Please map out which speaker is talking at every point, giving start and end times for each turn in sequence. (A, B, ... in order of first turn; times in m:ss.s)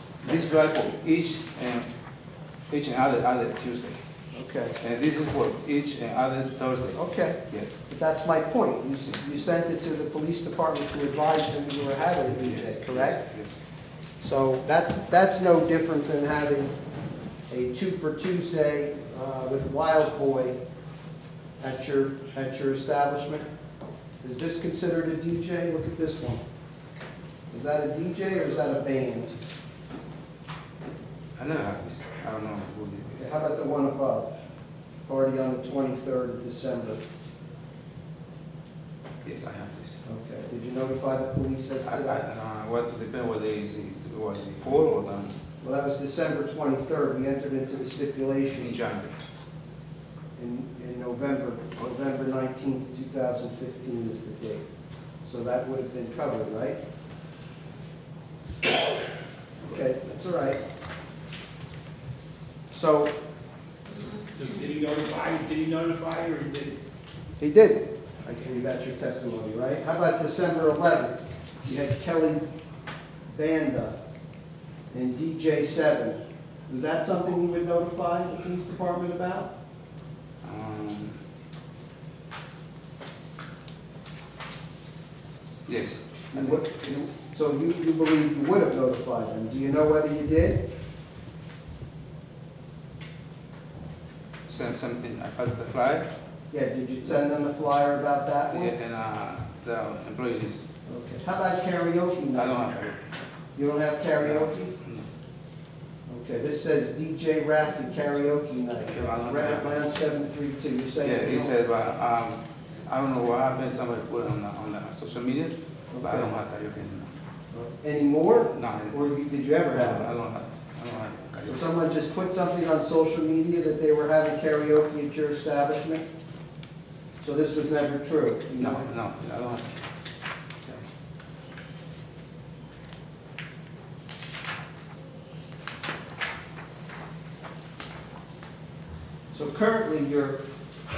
0:00.2-0:01.9 A
0:02.7-0:04.0 A
0:04.3-0:04.8 B
0:04.8-0:07.7 A
0:07.0-0:13.3 B
0:12.4-0:13.5 A
0:14.2-0:16.7 B
0:17.5-0:20.6 B
0:21.6-0:23.5 B
0:24.2-0:26.4 B
0:27.5-0:29.3 B
0:31.4-0:33.4 A
0:33.2-0:34.3 B
0:35.1-0:37.0 B
0:39.2-0:40.0 A
0:40.0-0:42.2 B
0:41.8-0:45.4 A
0:45.6-0:48.8 B
0:48.6-0:49.1 A
0:50.4-0:54.6 B
0:55.2-0:56.8 B
0:59.6-1:00.6 B
1:02.7-1:03.1 B
1:04.3-1:06.8 C
1:07.4-1:12.4 B
1:13.3-1:14.0 B
1:14.9-1:19.5 B
1:20.4-1:21.2 A
1:25.7-1:26.7 A
1:26.3-1:30.6 B
1:34.5-1:36.1 A
1:36.5-1:38.7 B
1:38.5-1:40.6 A
1:40.9-1:42.6 B
1:42.4-1:43.0 A
1:43.6-1:44.8 B
1:44.2-1:45.1 A
1:46.1-1:51.5 B
1:48.9-1:49.8 A
1:51.0-1:57.1 A
1:55.9-1:56.4 B
1:57.5-2:00.1 B
1:58.5-1:59.0 A
1:59.7-2:01.7 A
2:01.4-2:06.1 B
2:07.2-2:08.9 B
2:08.6-2:09.7 A
2:19.3-2:20.4 B